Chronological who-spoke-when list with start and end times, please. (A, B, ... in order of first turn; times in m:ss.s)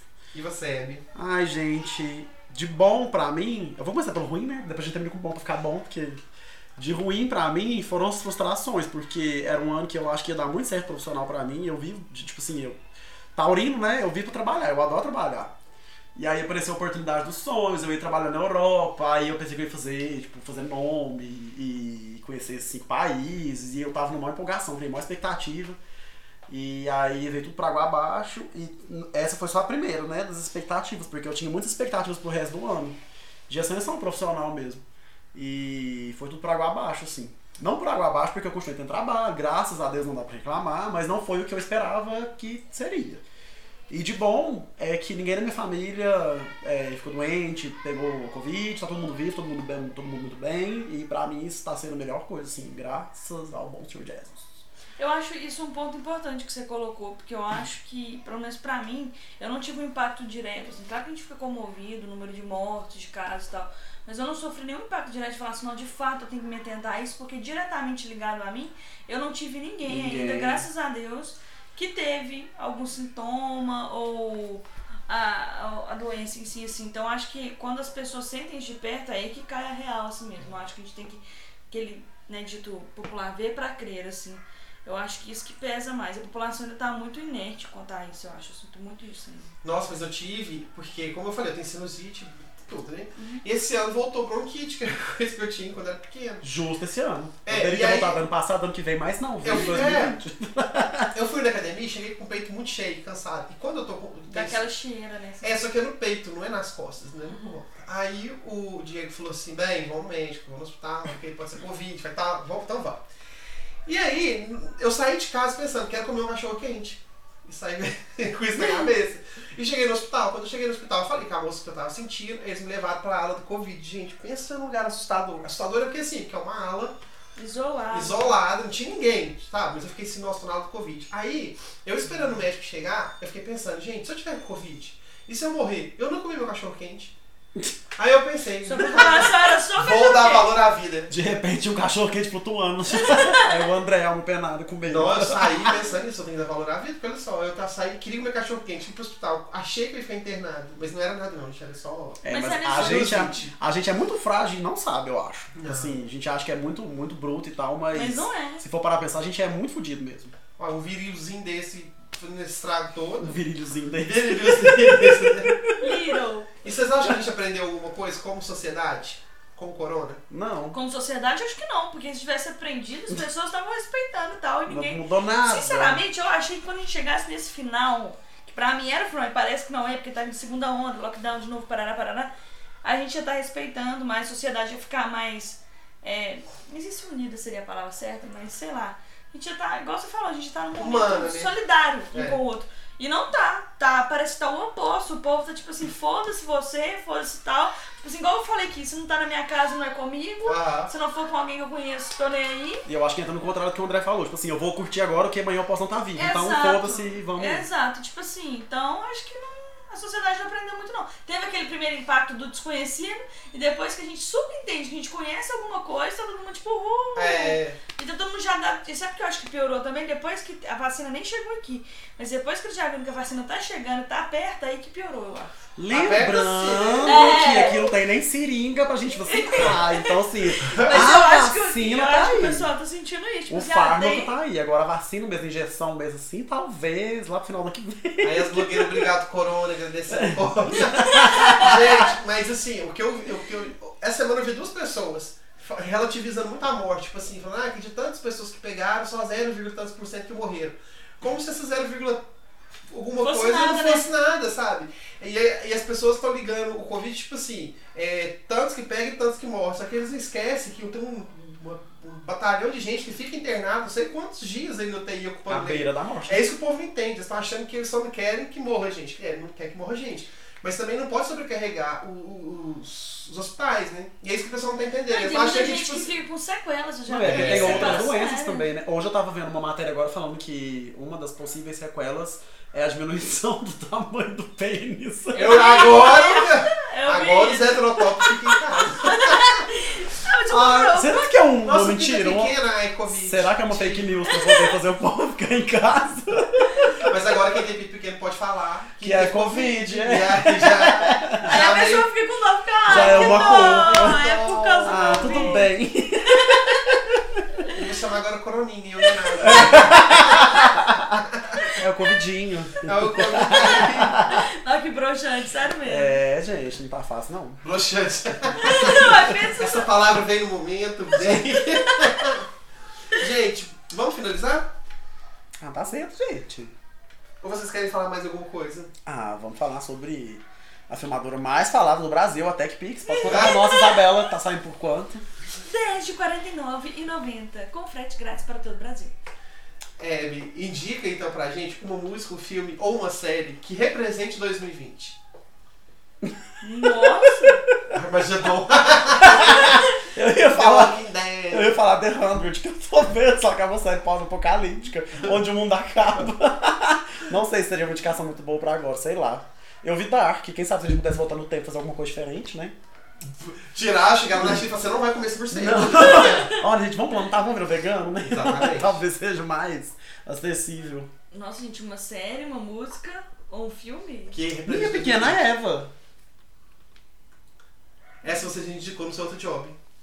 0:00.3-0:01.0 A
0:01.1-0:06.2 B
0:06.8-0:12.8 B
0:13.4-0:15.5 B
0:16.2-0:25.8 B
0:26.5-0:34.8 B
0:35.3-0:43.2 B
0:43.9-0:54.5 B
0:55.0-1:29.5 C
1:09.9-1:10.7 B
1:29.6-1:36.5 A
1:33.2-1:33.4 C
1:36.4-1:41.1 B
1:37.4-1:38.2 A
1:39.4-1:40.2 A
1:41.1-1:44.6 A
1:44.3-1:45.6 C
1:45.4-1:53.0 A
1:53.9-2:07.0 A
1:58.6-1:58.9 C
2:07.4-2:08.3 C
2:07.9-2:17.2 A
2:18.0-2:21.1 A
2:18.6-2:20.6 C
2:21.1-2:25.8 B
2:23.0-2:23.6 C
2:24.9-2:33.5 A
2:32.2-2:40.3 B
2:32.3-2:33.2 C
2:35.6-2:36.0 A
2:37.9-2:38.6 C
2:40.6-2:43.4 A
2:43.2-2:46.2 B
2:44.0-2:45.6 A
2:45.8-2:46.5 C
2:46.6-2:50.2 A
2:50.3-2:50.8 B
2:50.7-3:02.3 C
2:54.7-2:56.0 B
3:02.8-3:22.8 C
3:10.8-3:11.5 A
3:12.1-3:12.4 A
3:20.4-3:20.9 A
3:22.9-3:27.6 B
3:26.2-3:45.5 C
3:37.2-3:37.8 A
3:45.8-3:52.7 B
3:45.9-3:47.2 A
3:47.0-3:48.0 C
3:49.2-3:54.3 C
3:50.6-3:51.1 A
3:53.5-3:59.1 B
3:58.2-4:12.3 A
4:00.1-4:02.1 B
4:01.0-4:01.9 C
4:12.9-4:36.1 A
4:13.2-4:14.1 C
4:25.5-4:26.4 B
4:35.1-4:38.6 C
4:37.1-4:45.9 B
4:37.2-4:38.1 A
4:45.3-4:49.6 A
4:45.3-4:51.3 C
4:50.5-4:52.6 B
4:51.6-4:54.3 A
4:53.1-4:57.0 B
4:54.3-4:54.8 C
4:57.0-5:02.1 A
4:59.0-5:01.5 B
5:01.4-5:07.0 C
5:02.9-5:04.3 B
5:02.9-5:05.7 A
5:04.8-5:07.4 B
5:07.7-5:11.7 A
5:09.2-5:10.6 C
5:09.4-5:11.1 B
5:11.8-5:14.5 B
5:12.8-5:14.2 A
5:13.6-5:16.2 C
5:15.8-5:17.6 B
5:17.6-5:22.5 A
5:18.4-5:19.2 B
5:18.6-5:19.9 C
5:23.1-5:24.7 A
5:25.6-5:26.7 B
5:27.4-5:28.9 A
5:29.1-5:35.2 B
5:33.0-5:34.1 C
5:33.3-5:33.6 A
5:35.6-5:39.1 C
5:40.0-5:45.2 A
5:46.2-5:47.8 B
5:46.6-5:47.6 C
5:47.9-5:49.9 A
5:49.2-5:51.0 B
5:50.4-5:51.8 A
5:51.5-6:02.8 B
6:03.3-6:06.5 A
6:05.5-6:11.1 B
6:06.0-6:06.6 C
6:08.2-6:09.0 A
6:11.3-6:14.4 C
6:14.3-6:15.4 A
6:14.7-6:15.9 B
6:18.2-6:19.8 A